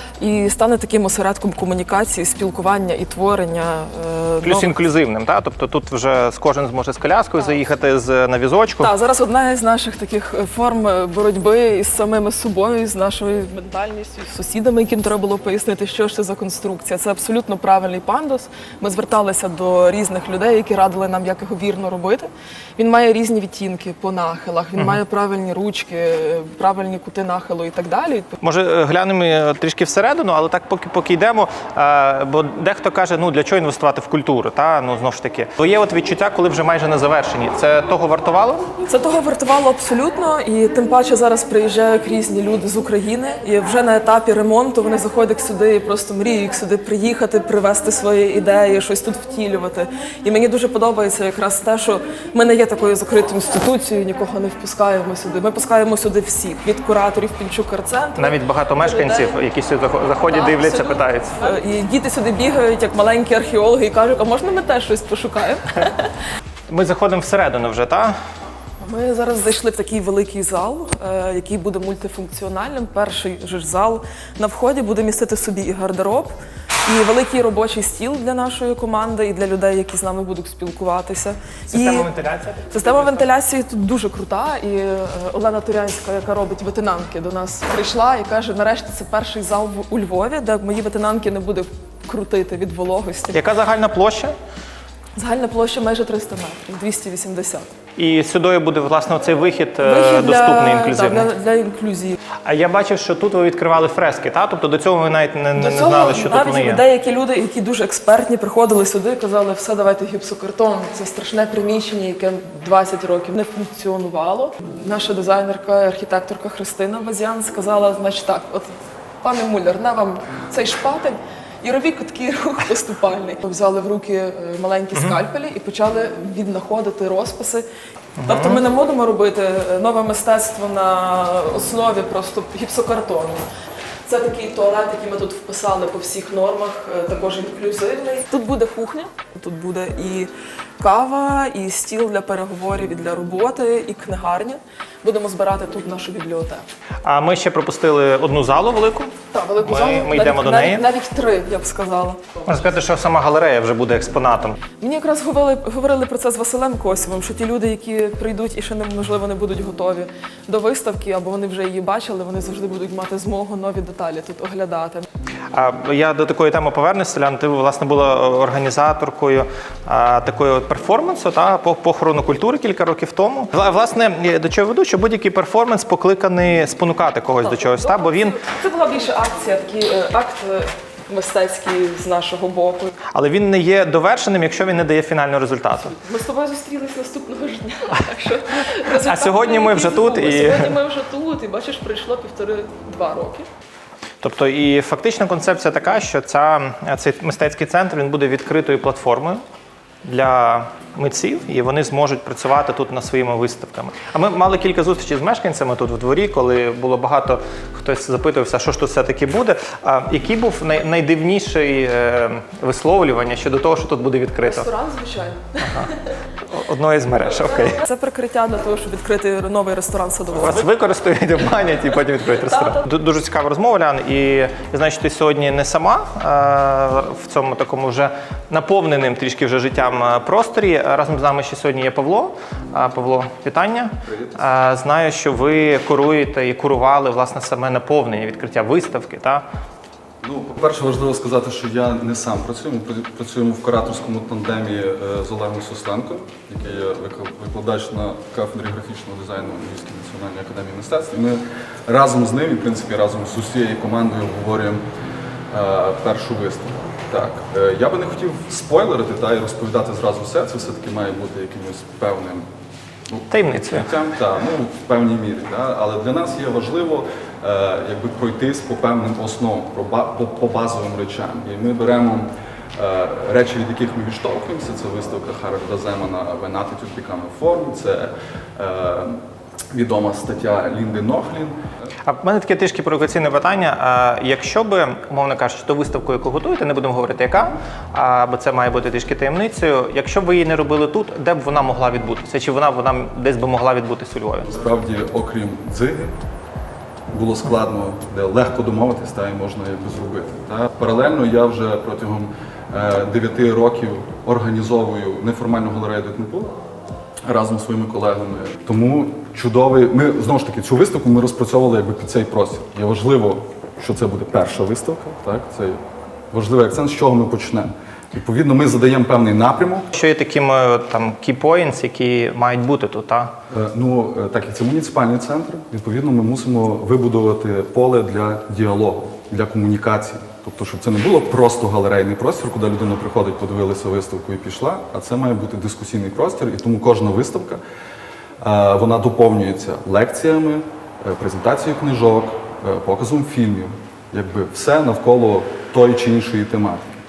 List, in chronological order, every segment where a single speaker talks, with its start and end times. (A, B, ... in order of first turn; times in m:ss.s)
0:00.2-0:04.8 A
0:04.4-0:08.9 B
0:08.8-0:28.4 A
0:28.4-0:38.6 B
0:38.8-0:59.4 A
0:58.2-1:01.4 B
1:00.2-1:06.1 A
1:06.7-1:08.2 B
1:08.8-1:22.1 A
1:21.7-1:23.3 B
1:22.7-1:33.4 A
1:33.3-1:34.3 B
1:35.2-1:37.7 A
1:38.0-1:41.3 B
1:39.8-1:42.2 A
1:42.4-1:46.8 B
1:45.5-2:07.7 A
2:08.2-2:08.6 B
2:08.2-2:13.4 A
2:14.0-2:26.7 A
2:27.0-2:30.8 B
2:29.3-2:32.5 A
2:32.5-2:34.6 B
2:34.8-2:45.1 A
2:45.5-2:58.4 B
2:57.4-3:03.0 A
3:03.1-3:05.9 B
3:05.8-3:13.5 A
3:09.0-3:10.8 B
3:14.2-3:19.4 B
3:20.0-3:34.7 B
3:34.4-3:36.0 A
3:35.6-3:35.9 B
3:36.5-3:37.8 B
3:37.4-3:40.7 A
3:40.3-3:59.4 B
3:54.0-3:54.4 C
4:00.2-4:14.8 C
4:15.5-4:22.5 C
4:23.1-4:41.6 C
4:23.3-4:23.9 B
4:42.0-4:54.5 B
4:54.5-4:56.2 C
4:57.1-5:06.6 C
5:07.2-5:19.9 C
5:19.9-5:23.3 B
5:23.5-5:37.6 C
5:38.4-5:47.0 C